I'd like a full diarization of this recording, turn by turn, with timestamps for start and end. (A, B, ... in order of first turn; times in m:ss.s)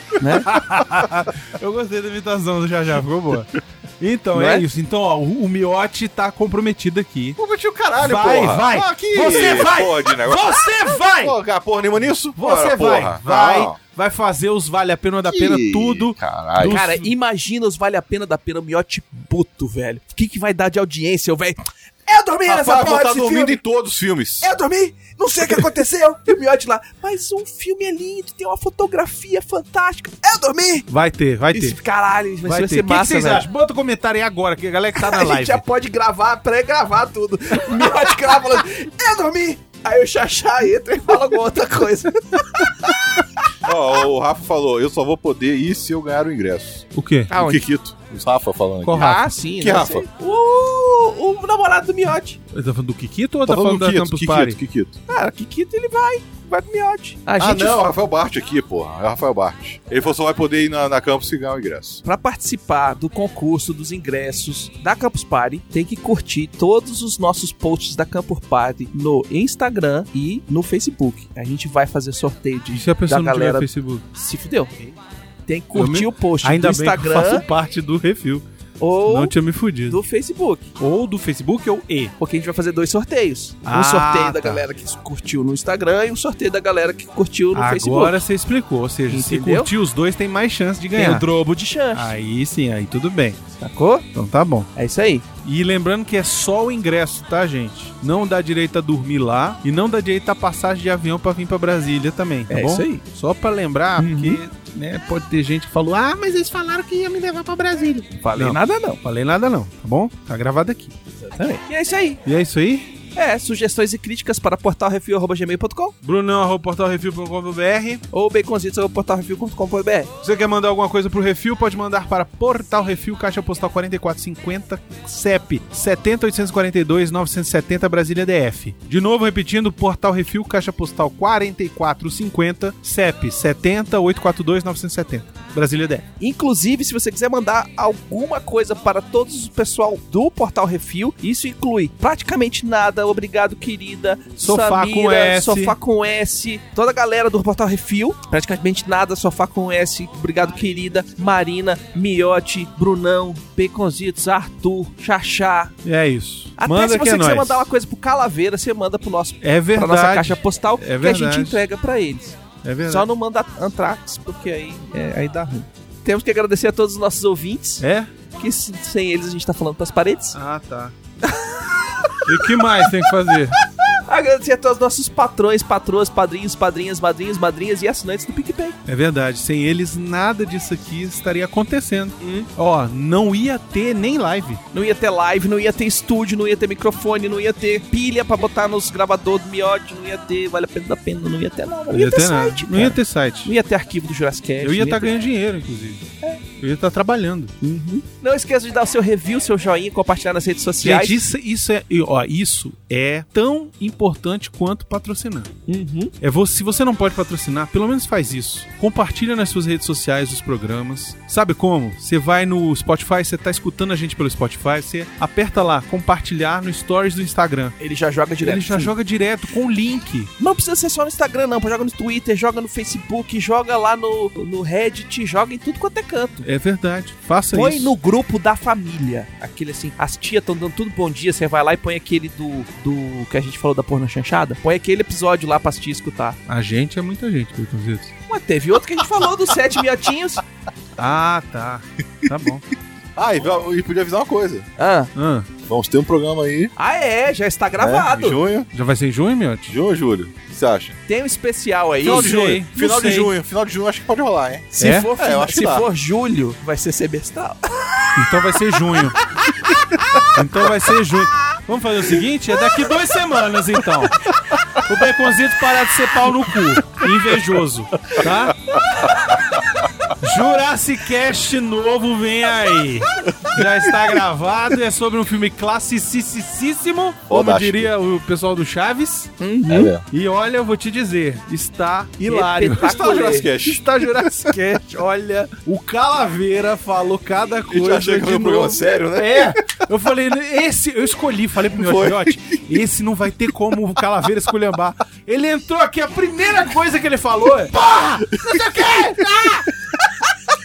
0:00.2-0:00.6 A
0:00.4-0:07.4 B
0:04.4-0:04.6 A
0:07.4-0:13.8 C
0:08.0-0:11.4 B
0:12.4-0:17.1 B
0:15.3-0:16.9 C
0:16.7-0:23.6 A
0:22.5-0:24.6 C
0:24.4-0:30.9 A
0:30.9-0:31.8 B
0:31.5-0:33.4 A
0:32.5-0:35.6 B
0:35.0-0:43.3 A
0:43.6-0:50.1 C
0:46.9-0:47.3 B
0:47.3-0:47.6 A
0:48.8-0:49.3 B
0:49.0-0:52.4 A
0:52.5-0:54.6 B
0:53.4-0:55.0 C
0:55.1-0:57.9 A
0:57.4-1:02.0 C
1:02.0-1:14.7 A
1:12.7-1:14.0 B
1:15.5-1:17.4 A
1:15.7-1:18.4 B
1:18.8-1:20.7 A
1:19.1-1:20.0 B
1:20.8-1:22.1 B
1:22.2-1:28.2 A
1:23.6-1:24.6 B
1:27.5-1:31.3 B
1:29.1-1:29.7 A
1:31.0-1:32.2 A
1:31.9-1:33.4 B
1:33.6-1:34.1 A
1:34.1-1:34.7 B
1:34.8-1:35.3 A
1:35.4-1:50.9 B
1:42.5-1:43.0 A
1:44.0-1:44.4 A
1:48.2-1:49.0 A
1:51.2-1:52.2 A
1:52.2-1:53.0 B
1:53.2-1:55.9 A
1:56.0-1:58.0 B
1:58.1-2:00.1 A
2:00.2-2:16.0 B
2:16.2-2:35.8 A
2:24.4-2:25.8 B
2:35.8-2:37.7 B
2:36.6-2:50.4 A
2:39.4-2:41.6 B
2:42.6-2:43.1 B
2:47.8-2:48.1 B
2:50.3-2:50.9 B
2:51.2-2:52.9 A
2:52.2-2:53.6 B
2:53.9-2:58.8 A
2:58.9-3:04.6 B
3:02.2-3:02.5 A
3:04.7-3:15.2 A
3:11.9-3:13.5 B
3:14.6-3:16.0 B
3:16.6-3:17.5 B
3:17.6-3:21.2 A
3:20.8-3:25.5 B
3:25.7-3:26.1 A
3:26.2-3:37.8 B
3:37.8-3:38.9 A
3:38.4-3:40.3 B
3:40.4-3:46.5 A
3:46.4-3:47.9 B
3:47.5-3:56.4 A
3:56.5-3:58.1 B
3:58.3-4:00.4 A
4:01.0-4:02.6 B
4:03.2-4:04.7 C
4:04.8-4:05.1 A
4:05.2-4:05.5 B
4:05.7-4:06.7 C
4:06.8-4:08.4 A
4:07.8-4:08.7 C
4:08.7-4:09.8 B
4:09.7-4:11.0 C
4:11.1-4:12.3 A
4:12.0-4:15.9 C
4:12.0-4:13.3 B
4:14.8-4:18.1 A
4:14.8-4:15.1 B
4:18.2-4:19.2 B
4:20.3-4:24.2 B
4:24.8-4:29.1 B
4:30.2-4:39.3 B
4:37.3-4:37.9 C
4:39.4-4:39.9 A
4:39.7-4:40.0 C
4:40.1-4:59.7 B
4:42.3-4:43.5 A
4:42.7-4:44.6 C
4:47.7-4:49.8 C
4:51.7-4:52.6 C
4:57.8-4:59.5 C